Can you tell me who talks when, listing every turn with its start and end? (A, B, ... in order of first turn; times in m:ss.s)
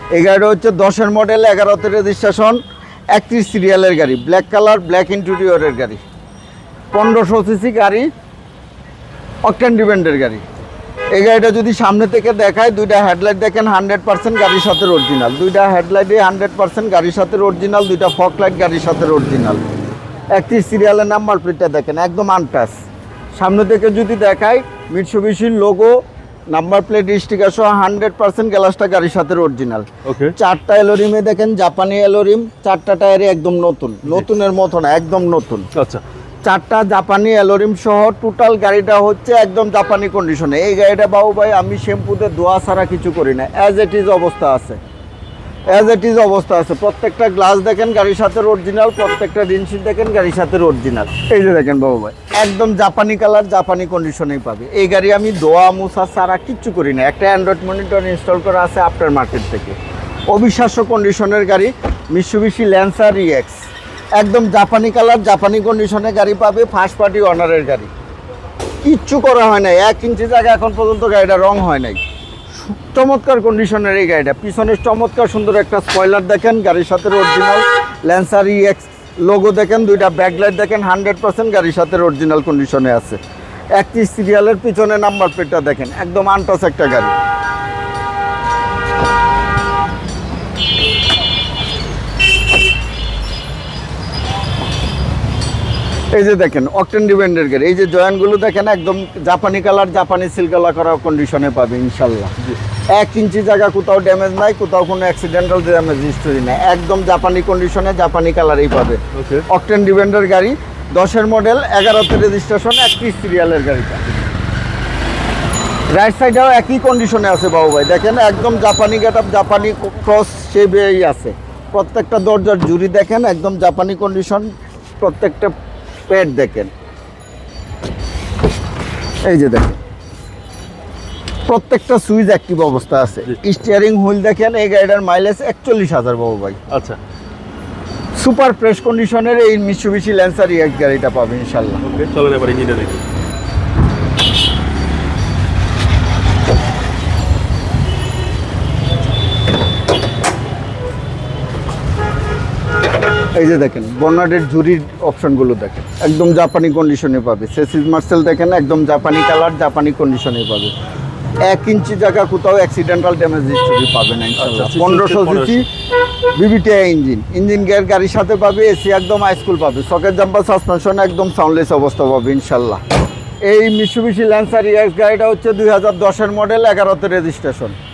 0:00.1-0:02.6 A
0:03.1-0:06.0 A
0:06.9-0:08.1 A
0:09.4-0:10.4 A
0:11.1-0:19.7 A
0:20.3-0:22.8 A
0:23.4-0:26.0 A
0:26.5-0:35.7 A
0:30.0-0:30.4 B
0:35.8-0:36.0 B
0:36.4-0:44.8 A
0:45.7-0:59.8 A
1:00.3-1:03.6 A
1:04.2-1:07.9 A
1:08.8-1:12.0 A
1:12.9-1:23.2 A
1:23.8-1:27.2 A
1:36.1-1:42.3 A
1:42.9-1:54.2 A
1:49.1-1:49.4 B
1:55.9-2:05.5 A
2:06.1-2:06.7 A
2:09.2-2:09.8 A
2:11.5-2:16.6 A
2:16.7-2:17.0 B
2:18.2-2:21.8 A
2:21.8-2:23.0 B
2:33.4-2:40.7 A
2:41.5-2:45.7 A
2:44.4-2:45.6 B
2:46.4-2:52.8 A
2:53.4-2:57.8 A